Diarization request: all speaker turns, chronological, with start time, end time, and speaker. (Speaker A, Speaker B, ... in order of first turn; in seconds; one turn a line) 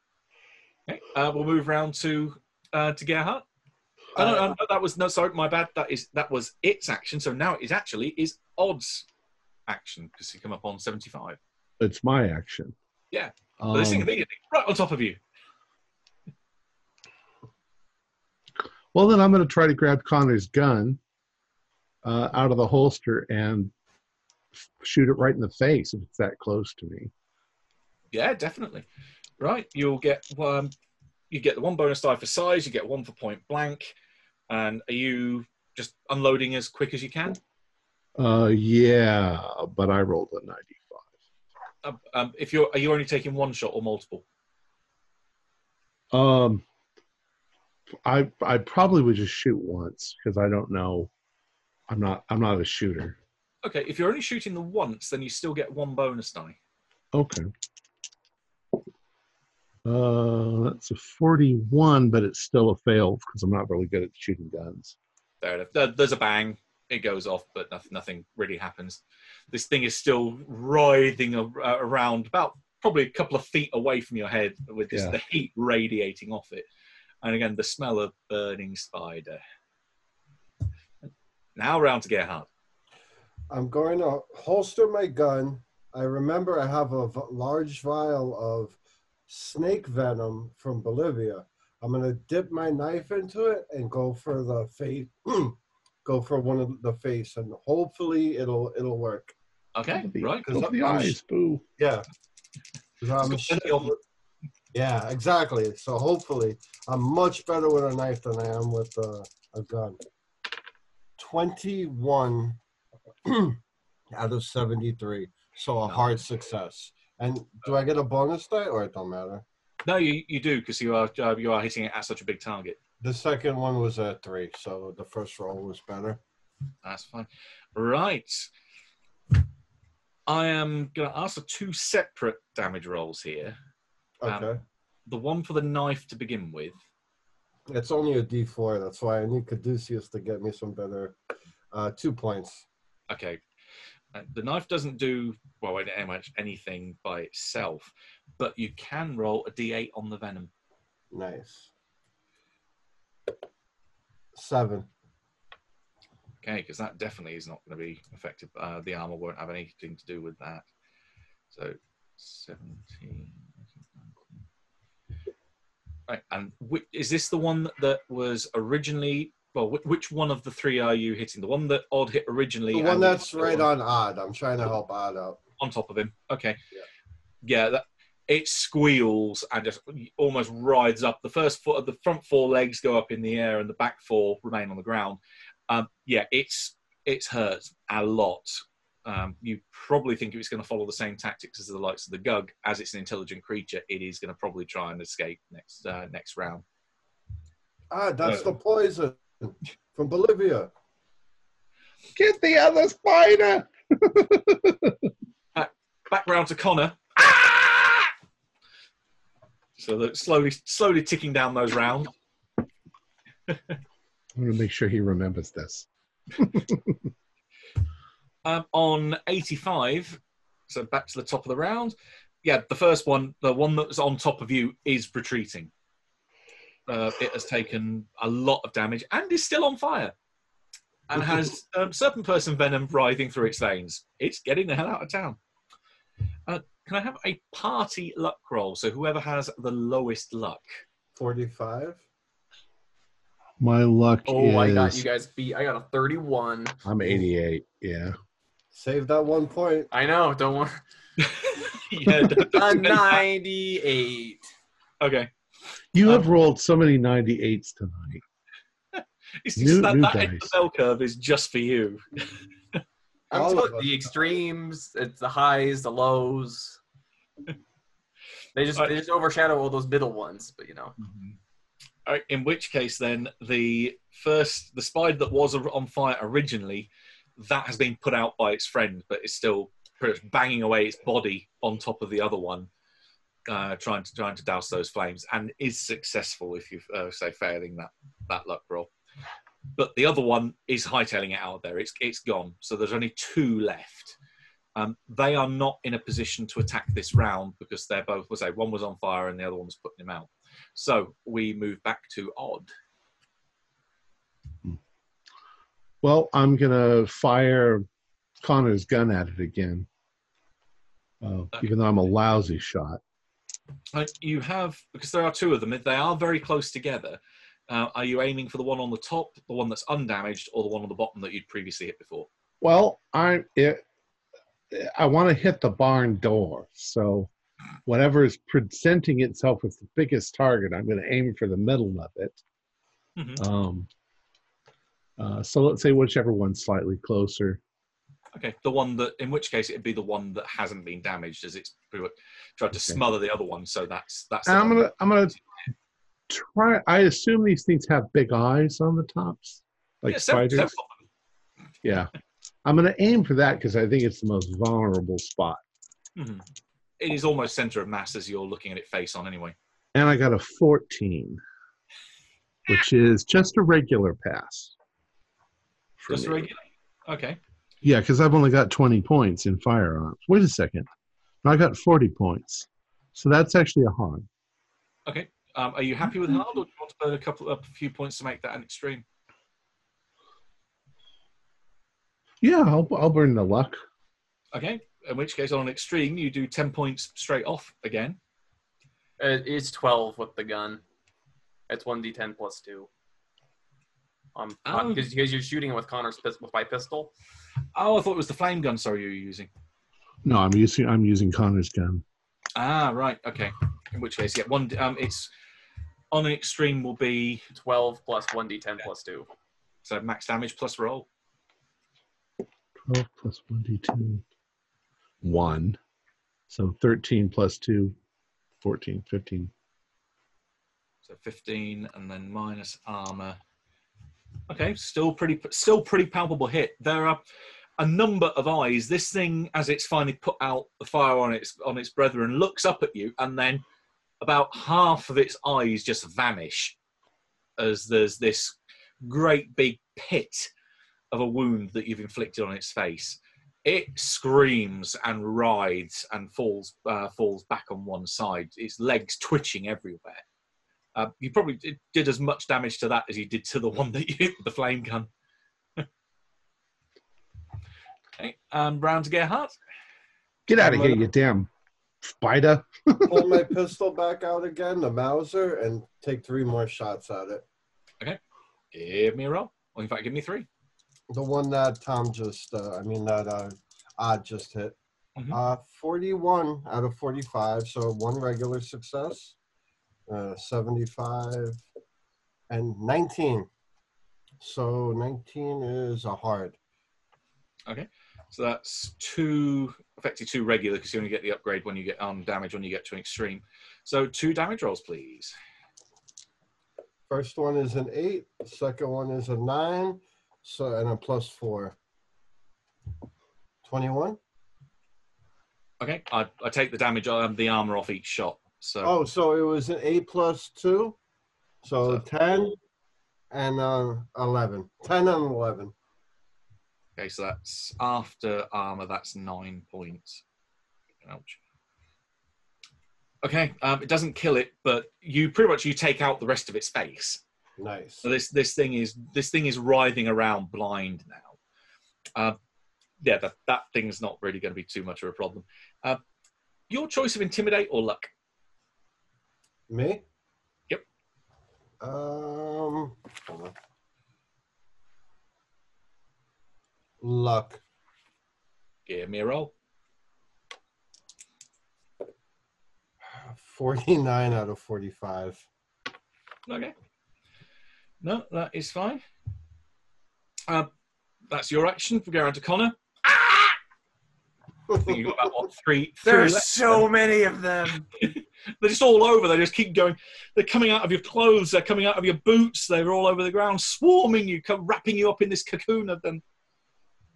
Speaker A: 0.9-3.4
Speaker A: 4.2-9.1
Speaker B: 4.2-4.5
Speaker A: 9.7-11.4
Speaker C: 11.8-12.8
Speaker A: 13.1-15.2
Speaker C: 13.6-14.1
Speaker C: 18.9-21.0
Speaker C: 22.0-23.7
Speaker C: 24.6-27.1
Speaker A: 28.1-28.9
Speaker A: 29.4-30.7
Speaker A: 31.3-33.9
Speaker A: 34.5-37.4
Speaker C: 38.2-41.1
Speaker A: 41.8-44.2
Speaker C: 46.1-46.6
Speaker C: 48.0-51.1
Speaker C: 51.9-53.2
Speaker A: 53.6-56.6
Speaker C: 57.1-57.5
Speaker C: 59.9-65.0
Speaker A: 65.4-76.7
Speaker C: 74.9-75.2
Speaker A: 77.2-79.4
Speaker A: 81.0-82.5
Speaker B: 83.5-99.3
Speaker A: 99.8-100.9
Speaker C: 100.0-101.6
Speaker B: 100.4-101.2
Speaker B: 101.8-102.1
Speaker B: 103.0-104.0
Speaker A: 103.2-104.0
Speaker B: 104.7-110.0
Speaker B: 111.2-112.6
Speaker B: 113.3-113.6
Speaker B: 114.1-119.4
Speaker A: 119.8-122.8
Speaker B: 123.0-126.2
Speaker A: 126.8-128.5
Speaker A: 130.3-133.6
Speaker B: 134.2-134.6
Speaker A: 134.3-134.5
Speaker A: 135.1-136.8
Speaker B: 137.7-141.2
Speaker B: 141.7-142.7
Speaker A: 143.1-143.4
Speaker A: 144.1-150.5
Speaker B: 151.1-151.7
Speaker B: 154.3-154.9
Speaker A: 156.4-160.7
Speaker A: 161.5-164.3
Speaker A: 166.1-173.7
Speaker B: 172.7-175.4
Speaker A: 175.6-176.6
Speaker A: 177.4-196.6
Speaker B: 197.9-200.7
Speaker C: 202.2-205.1
Speaker A: 205.6-208.1
Speaker A: 209.8-212.1
Speaker C: 214.4-217.1
Speaker A: 218.4-225.7
Speaker A: 226.9-230.1
Speaker A: 231.1-235.4
Speaker A: 236.5-240.8
Speaker B: 241.2-242.0
Speaker C: 243.6-245.1
Speaker D: 244.3-246.8
Speaker C: 246.8-248.2
Speaker B: 248.7-249.9
Speaker D: 249.9-250.8
Speaker A: 251.2-253.2
Speaker D: 252.4-254.5
Speaker A: 255.0-255.3
Speaker C: 255.9-258.2
Speaker A: 258.9-262.4
Speaker C: 259.6-260.5
Speaker D: 263.3-266.8
Speaker B: 263.3-264.1
Speaker D: 268.6-270.9
Speaker A: 271.1-271.3
Speaker A: 272.1-282.7
Speaker A: 283.5-288.9
Speaker A: 289.8-294.2
Speaker A: 294.8-302.7
Speaker C: 306.0-307.9
Speaker C: 308.4-309.9
Speaker C: 311.2-313.0
Speaker A: 313.9-322.3
Speaker C: 322.6-323.8
Speaker C: 324.7-327.3
Speaker C: 327.9-332.4
Speaker A: 333.2-333.4
Speaker C: 333.4-333.9
Speaker C: 335.2-337.6
Speaker A: 338.4-344.9
Speaker C: 344.4-345.4
Speaker C: 346.3-350.7
Speaker A: 350.1-350.9
Speaker C: 351.8-352.1
Speaker C: 352.6-355.6
Speaker A: 356.2-356.4
Speaker A: 357.0-359.6
Speaker C: 359.9-361.4
Speaker C: 362.7-364.8
Speaker C: 366.0-366.5
Speaker A: 366.1-367.4
Speaker C: 367.8-370.9
Speaker C: 371.4-374.3
Speaker A: 375.1-379.0
Speaker C: 382.4-383.8
Speaker A: 384.5-388.2
Speaker D: 389.2-390.8
Speaker D: 391.7-392.9
Speaker D: 394.4-397.1
Speaker A: 394.7-395.1
Speaker A: 397.8-399.5
Speaker C: 400.2-402.0
Speaker A: 402.6-405.3
Speaker A: 406.1-407.4
Speaker D: 407.5-409.3
Speaker A: 409.9-411.1
Speaker C: 412.9-414.2
Speaker C: 415.2-415.8
Speaker C: 416.5-417.9
Speaker C: 418.6-419.5
Speaker A: 421.1-423.4
Speaker A: 424.5-427.2
Speaker A: 427.8-433.6
Speaker A: 434.2-436.8
Speaker A: 437.6-440.5
Speaker A: 441.1-450.2
Speaker A: 450.9-455.1
Speaker A: 458.2-459.6
Speaker C: 460.5-461.5
Speaker B: 460.6-461.1
Speaker C: 462.1-463.5
Speaker B: 463.1-467.4
Speaker A: 468.7-470.5
Speaker B: 471.1-474.8
Speaker B: 475.3-479.4
Speaker B: 480.1-481.6
Speaker B: 482.5-483.5
Speaker B: 484.4-486.6
Speaker A: 487.7-495.4
Speaker B: 497.1-501.8
Speaker B: 503.6-504.2
Speaker A: 505.8-508.9
Speaker B: 508.8-511.0
Speaker B: 511.6-512.6
Speaker B: 513.3-515.7
Speaker A: 517.0-520.2
Speaker A: 521.0-521.4
Speaker A: 523.2-527.2
Speaker B: 527.6-528.1
Speaker A: 528.0-531.4
Speaker A: 533.0-536.0
Speaker A: 536.7-538.1
Speaker B: 539.7-540.0
Speaker B: 541.8-543.5
Speaker B: 547.0-547.6
Speaker A: 548.9-549.5
Speaker B: 553.1-555.5
Speaker A: 556.5-556.7
Speaker A: 558.0-559.0
Speaker A: 561.3-563.6
Speaker A: 564.7-566.9
Speaker B: 564.8-565.2
Speaker D: 566.0-567.9
Speaker A: 568.0-576.2